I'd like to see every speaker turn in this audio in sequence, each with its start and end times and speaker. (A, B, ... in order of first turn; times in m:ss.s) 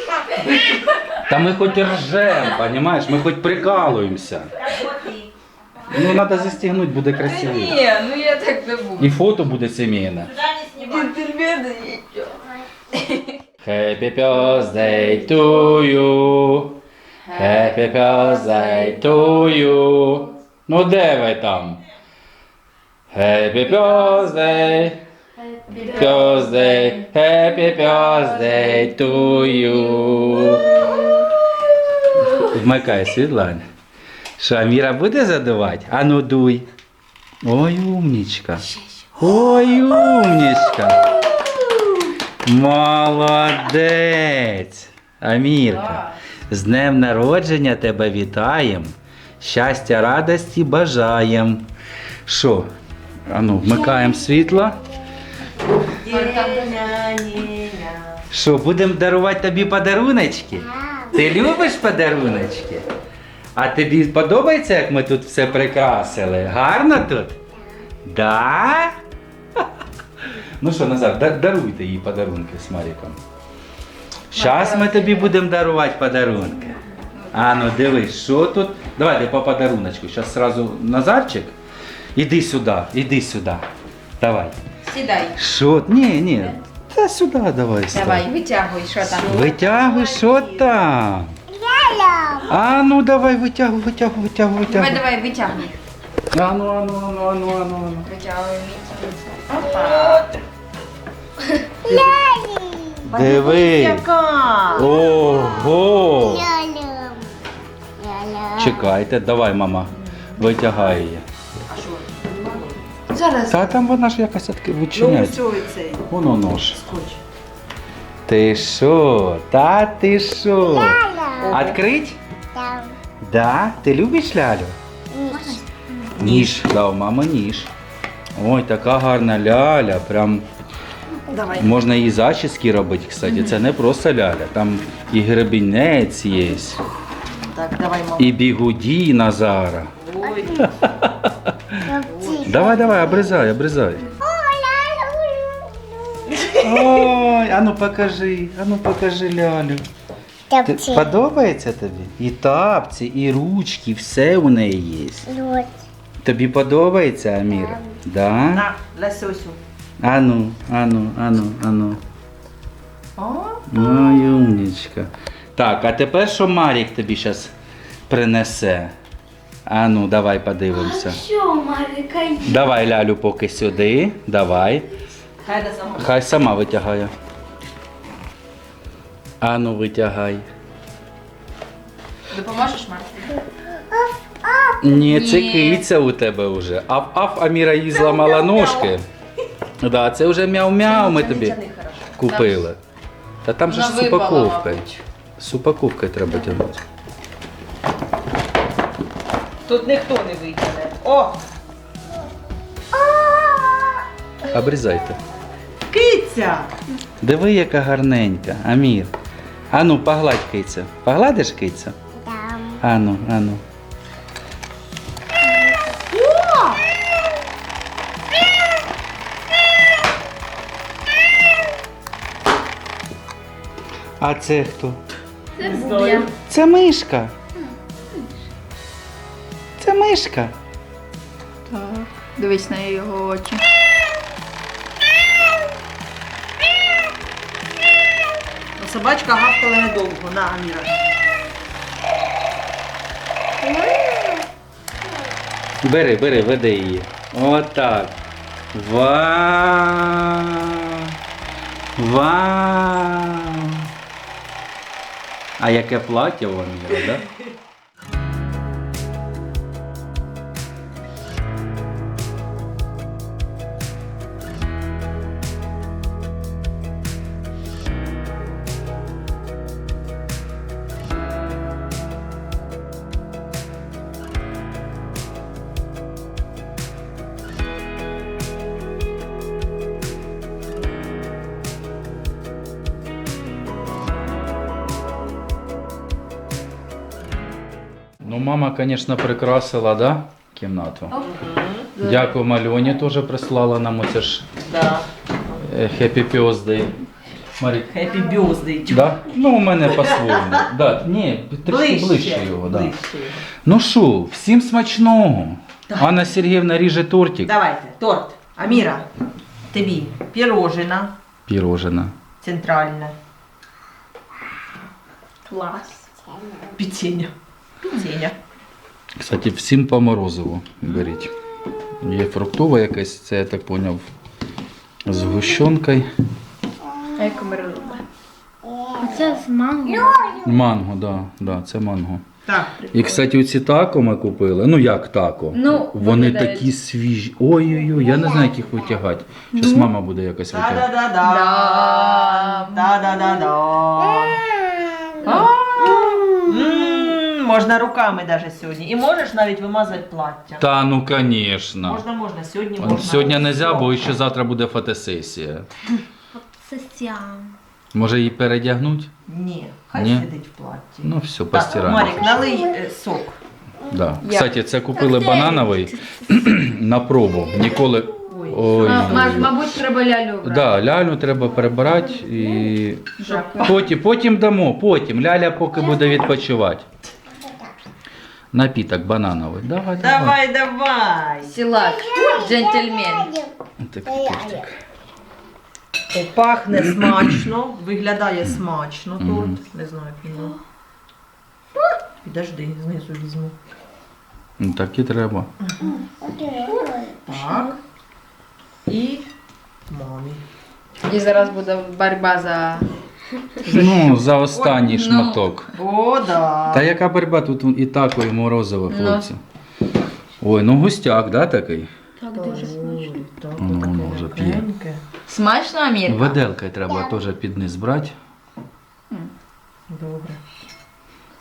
0:00.1-0:01.3 A
0:01.3-0:04.6 B
0:04.5-0:05.3 C
0:05.9-0:07.8 B
0:07.1-0:09.2 A
0:09.0-0:10.3 B
0:10.3-0:11.1 C
0:10.8-0:12.4 A
0:12.9-0:13.3 A
0:13.6-0:16.8 B
0:17.2-0:19.6 A
0:17.3-0:21.8 B
0:23.1-0:25.0 B
0:25.4-0:27.1 A
0:25.9-0:30.7 B
0:32.2-0:33.6 B
0:34.4-0:36.7 B
0:37.4-0:38.6 B
0:39.2-0:41.2 B
0:42.4-0:51.7 B
0:45.6-0:46.2 A
0:52.3-0:52.7 B
0:53.3-0:54.8 B
0:53.8-0:54.8 D
0:55.9-0:58.2 C
0:56.1-0:56.8 A
0:58.3-1:02.9 B
1:00.6-1:01.2 D
1:03.6-1:07.4 B
1:08.0-1:09.0 B
1:10.4-1:13.2 B
1:14.3-1:16.8 B
1:14.3-1:15.3 A
1:17.1-1:17.5 A
1:17.3-1:21.6 B
1:22.2-1:23.7 B
1:24.2-1:24.6 B
1:24.9-1:25.4 A
1:25.4-1:28.3 B
1:27.9-1:29.5 A
1:29.1-1:30.7 C
1:29.1-1:31.4 B
1:31.5-1:32.5 D
1:32.5-1:35.0 B
1:34.7-1:35.8 A
1:36.3-1:38.1 B
1:38.0-1:40.2 A
1:39.5-1:40.4 C
1:41.8-1:43.0 D
1:41.8-1:42.2 C
1:43.0-1:44.1 B
1:43.1-1:44.9 C
1:44.7-1:46.5 B
1:44.8-1:47.3 D
1:48.0-1:48.9 D
1:48.6-1:51.2 B
1:51.7-1:53.7 C
1:53.1-1:53.6 A
1:53.5-1:55.4 B
1:54.9-1:56.1 C
1:56.1-1:56.8 B
1:56.7-1:57.2 C
1:58.3-2:02.2 B
2:00.6-2:01.5 D
2:01.4-2:01.8 C
2:02.5-2:03.0 D
2:03.2-2:04.8 B
2:05.1-2:05.6 D
2:05.3-2:05.6 A
2:06.2-2:07.7 B
2:06.2-2:06.5 C
2:08.4-2:10.4 B
2:11.3-2:11.7 C
2:11.6-2:16.8 B
2:17.5-2:18.4 C
2:18.2-2:19.9 B
2:20.0-2:20.6 C
2:20.2-2:20.6 D
2:20.5-2:21.8 B
2:21.8-2:23.4 D
2:22.0-2:22.9 C
2:22.4-2:24.1 B
2:24.2-2:26.6 D
2:26.6-2:29.9 B
2:30.5-2:31.1 D
2:30.6-2:35.3 B
2:35.3-2:35.8 D
2:36.2-2:38.7 B
2:37.5-2:38.0 D
2:38.5-2:39.6 C
2:40.0-2:42.0 B
2:43.2-2:43.6 C
2:43.7-2:47.5 B
2:48.1-2:48.9 B
2:49.7-2:51.2 B
2:50.8-2:52.5 A
2:52.4-2:54.9 B
2:55.4-2:56.2 C
2:56.0-2:57.1 B
2:59.4-3:00.5 B
3:02.3-3:03.4 A
3:03.9-3:04.9 D
3:04.8-3:09.1 B
3:05.0-3:05.8 A
3:09.8-3:11.6 B
3:10.9-3:12.2 C
3:12.2-3:12.8 B
3:12.2-3:12.6 A
3:13.4-3:14.9 B
3:13.7-3:15.0 A
3:15.4-3:16.8 B
3:19.7-3:21.4 C
3:23.0-3:23.9 C
3:24.5-3:25.2 B
3:25.9-3:26.7 C
3:27.2-3:29.1 B
3:29.7-3:32.0 B
3:32.1-3:32.8 D
3:32.8-3:33.6 B
3:36.1-3:36.8 C
3:44.2-3:45.0 B
3:45.6-3:46.3 A
3:45.6-3:46.3 C
3:46.5-3:47.3 B
3:49.8-3:50.5 B
3:51.7-3:53.6 A
3:58.8-4:01.0 C
4:03.6-4:04.4 D
4:05.8-4:08.2 B
4:08.7-4:11.2 B
4:12.0-4:13.9 B
4:15.6-4:17.3 B
4:48.2-4:51.2 B
4:51.2-4:51.9 C
4:52.0-4:52.4 A
4:52.0-4:54.5 B
4:54.6-4:55.6 C
4:55.6-4:57.0 B
4:57.6-4:58.0 B
4:57.9-4:59.2 C
4:58.9-5:02.9 B
5:00.0-5:00.6 C
5:01.6-5:03.5 C
5:03.6-5:07.5 B
5:05.9-5:06.2 C
5:07.4-5:09.1 C
5:09.7-5:11.1 C
5:11.5-5:12.1 B
5:12.4-5:13.2 C
5:15.5-5:16.0 A
5:16.2-5:16.8 D
5:16.8-5:17.3 C
5:17.8-5:18.4 C
5:19.2-5:21.3 B
5:22.0-5:24.1 B
5:25.0-5:26.1 B
5:27.2-5:28.0 A
5:28.6-5:30.6 D
5:29.1-5:30.2 A
5:30.4-5:32.2 B
5:32.5-5:32.9 C
5:32.9-5:40.9 B
5:35.5-5:36.7 A
5:37.9-5:38.7 D
5:39.5-5:39.9 A
5:40.5-5:44.4 C
5:41.2-5:42.9 A
5:44.0-5:46.9 D
5:45.2-5:50.6 C
5:45.2-5:45.6 A
5:50.6-5:52.0 B
5:51.8-5:53.9 C
5:52.8-5:55.7 B
5:56.6-5:57.5 D
5:57.9-5:59.1 B
5:59.3-6:03.4 C
6:00.0-6:00.3 B
6:01.0-6:02.4 B
6:01.9-6:02.6 D
6:03.9-6:09.6 B
6:04.2-6:05.8 A
6:08.3-6:09.4 C
6:08.8-6:10.7 A
6:10.4-6:16.9 B
6:13.2-6:13.9 A
6:13.2-6:13.8 C
6:17.3-6:17.7 D
6:18.5-6:20.4 B
6:20.0-6:21.5 C
6:21.4-6:23.3 A
6:21.8-6:23.5 D
6:23.8-6:24.8 B
6:24.0-6:24.7 D
6:26.1-6:30.6 C
6:26.7-6:27.4 B
6:29.2-6:29.6 B
6:32.2-6:33.6 C
6:34.6-6:35.5 B
6:35.7-6:36.0 C
6:35.8-6:37.7 D
6:37.3-6:37.8 C
6:38.9-6:39.3 C
6:39.9-6:40.4 C
6:41.0-6:42.9 A
6:43.6-6:44.8 C
6:43.7-6:45.7 B
6:44.8-6:45.5 A
6:45.7-6:46.9 C
6:46.7-6:49.4 B
6:48.9-6:49.3 A
6:50.4-6:51.9 B
6:52.2-6:53.0 A
6:52.3-6:55.0 C
6:53.6-6:54.6 B
6:55.3-6:56.4 A
6:56.1-6:58.2 B
6:59.9-7:00.4 C